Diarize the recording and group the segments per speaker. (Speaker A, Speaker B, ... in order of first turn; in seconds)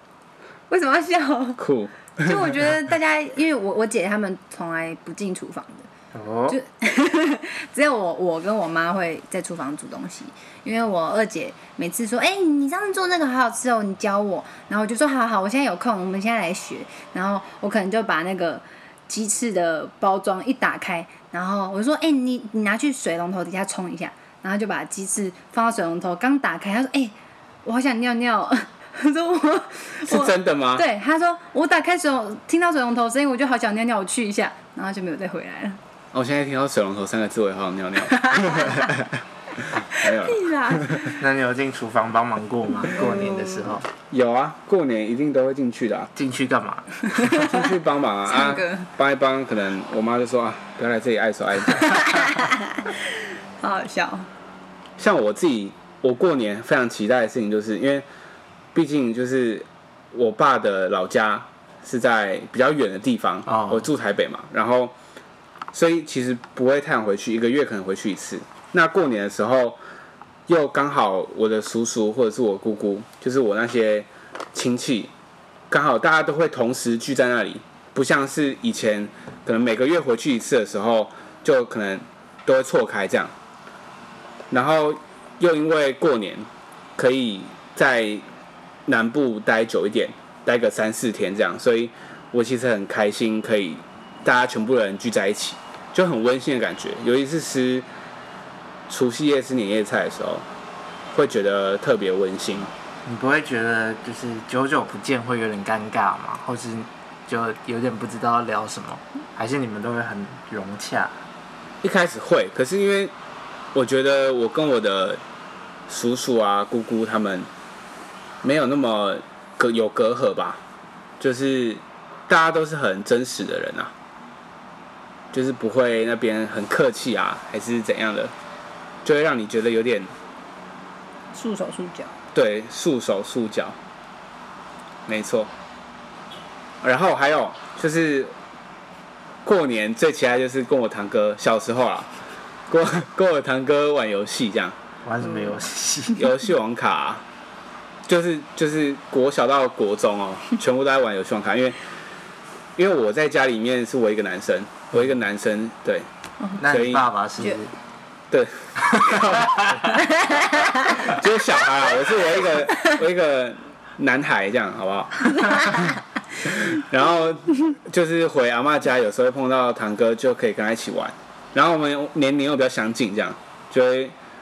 Speaker A: 0.7-1.6, 2.2-5.9, 6.5-35.8, 38.2-38.8, 39.9-41.2, 42.9-43.7, 47.0-47.6, 48.2-48.9, 51.7-54.3, 131.3-132.1, 160.0-161.1, 165.4-165.8
Speaker B: 1.6-2.7, 30.0-30.8, 36.1-41.1, 44.1-46.1, 47.3-52.2, 55.0-58.0, 58.7-64.9, 65.7-69.8, 70.5-75.1, 75.7-83.3, 84.5-88.2, 88.9-97.8, 98.9-100.4, 101.1-102.7, 111.8-113.1, 113.7-115.2, 115.9-117.5, 118.4-120.6, 121.2-123.9, 125.3-128.3, 129.0-130.1, 132.3-133.8, 135.1-135.5, 136.8-138.3, 139.4-142.1, 142.7-144.8, 146.1-147.2, 148.1-151.8, 152.8-156.1, 156.6-157.1, 158.3-159.9, 160.9-174.1
Speaker C: 6.1-6.6, 41.2-43.9, 46.1-47.3, 63.5-63.9, 103.0-111.2, 145.0-146.2, 156.6-157.7, 159.1-159.8